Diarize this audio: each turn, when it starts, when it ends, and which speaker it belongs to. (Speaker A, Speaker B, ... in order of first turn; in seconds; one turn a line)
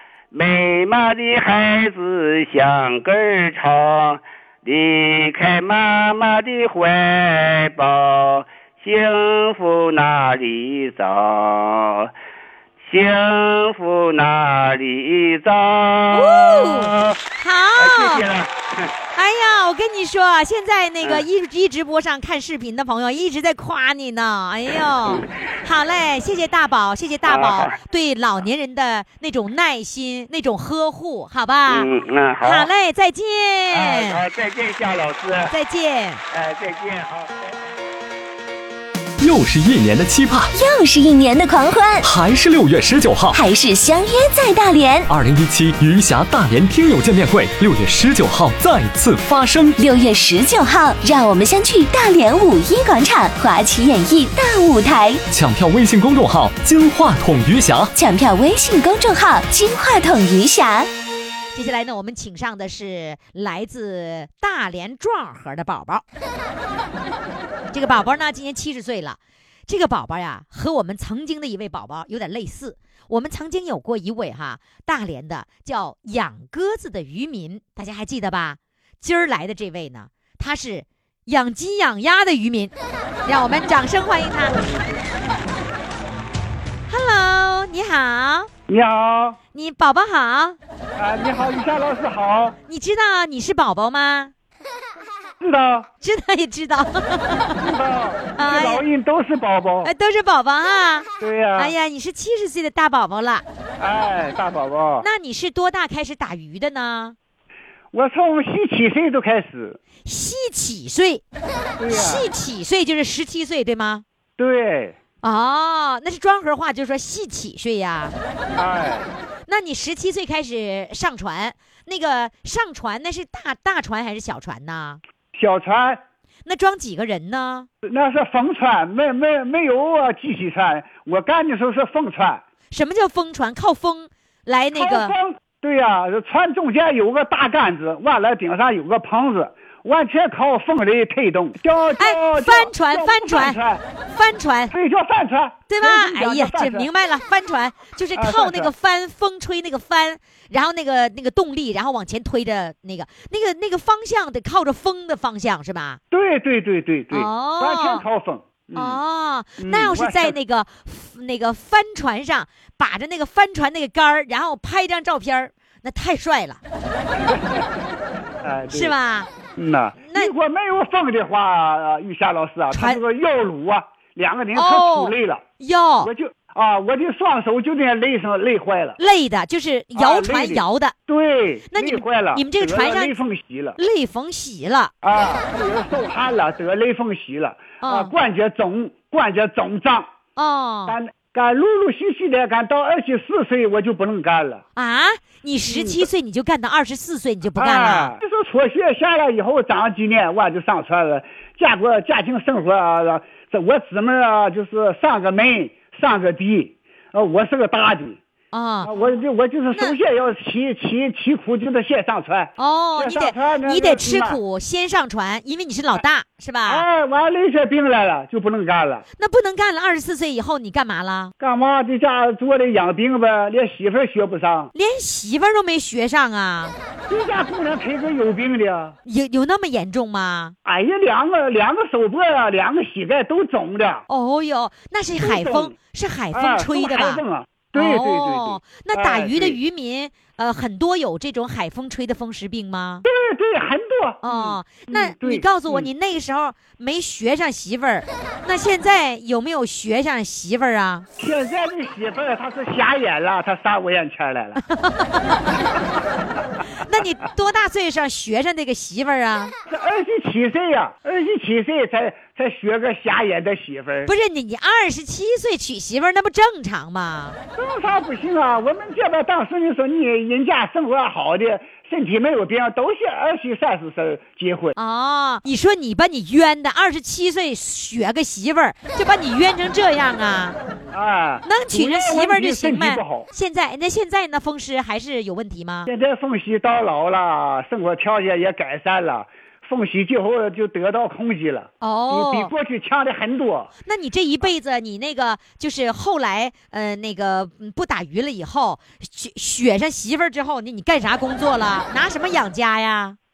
Speaker A: 0.3-12.1
Speaker A: 12.8-17.2
Speaker B: 16.1-18.2
Speaker A: 17.8-18.9
Speaker B: 19.1-31.9
Speaker A: 27.3-27.7
Speaker A: 31.7-32.7
Speaker B: 32.4-34.2
Speaker A: 33.7-35.5
Speaker B: 35.5-36.2
Speaker A: 36.3-37.5
Speaker C: 39.2-40.5
Speaker D: 40.5-42.1
Speaker C: 42.0-43.4
Speaker D: 43.3-45.1
Speaker C: 45.1-49.8
Speaker D: 49.8-55.2
Speaker C: 55.3-57.9
Speaker D: 58.0-60.9
Speaker B: 61.5-66.0
Speaker B: 67.7-82.7
Speaker B: 83.3-84.6
Speaker B: 86.9-88.5
Speaker E: 88.7-89.4
Speaker B: 89.5-90.6
Speaker E: 91.0-92.6
Speaker B: 92.7-94.3
Speaker E: 95.4-95.9
Speaker B: 96.0-97.7
Speaker E: 97.6-99.9
Speaker B: 98.4-98.8
Speaker B: 99.8-103.5
Speaker E: 101.2-101.7
Speaker E: 103.8-105.1
Speaker B: 105.0-107.2
Speaker E: 107.9-109.8
Speaker B: 110.0-111.2
Speaker E: 111.8-112.2
Speaker B: 111.9-114.0
Speaker E: 114.4-115.0
Speaker B: 115.2-118.2
Speaker E: 118.6-119.1
Speaker B: 119.5-125.0
Speaker E: 125.3-126.0
Speaker B: 126.5-127.7
Speaker E: 127.8-132.4
Speaker B: 132.7-135.1
Speaker E: 134.7-143.8
Speaker B: 142.0-143.6
Speaker B: 144.1-144.7
Speaker E: 144.7-146.9
Speaker B: 145.7-156.0
Speaker E: 148.2-148.7
Speaker E: 156.1-159.0
Speaker B: 157.1-158.0
Speaker B: 158.8-166.6
Speaker E: 159.6-160.4
Speaker E: 167.2-167.7
Speaker E: 168.4-168.9
Speaker B: 168.7-169.3
Speaker E: 169.6-175.4
Speaker B: 170.1-170.3
Speaker B: 172.7-173.0
Speaker B: 174.6-176.1
Speaker E: 176.0-179.0
Speaker B: 179.0-180.9
Speaker E: 179.9-183.8
Speaker B: 181.7-183.2
Speaker B: 183.8-184.9
Speaker E: 185.0-190.1
Speaker B: 187.8-188.1
Speaker B: 190.4-191.0
Speaker E: 190.9-194.6
Speaker B: 194.8-198.1
Speaker E: 195.7-196.1
Speaker E: 197.6-208.2
Speaker B: 208.5-208.9
Speaker E: 208.8-214.4
Speaker B: 212.6-216.8
Speaker E: 216.7-219.0
Speaker B: 219.2-221.3
Speaker E: 221.4-224.7
Speaker B: 224.7-226.8
Speaker E: 227.1-229.0
Speaker B: 229.1-230.6
Speaker E: 230.7-234.1
Speaker B: 234.1-243.1
Speaker E: 235.2-235.7
Speaker E: 236.3-239.6
Speaker E: 243.1-245.9
Speaker B: 244.2-251.1
Speaker E: 251.2-254.6
Speaker B: 254.6-255.6
Speaker B: 256.7-259.5
Speaker E: 259.7-264.1
Speaker B: 264.1-267.4
Speaker E: 267.6-274.8
Speaker B: 274.8-280.6
Speaker E: 280.9-283.3
Speaker B: 281.4-285.9
Speaker E: 285.9-293.7
Speaker B: 291.8-292.5
Speaker B: 293.9-303.2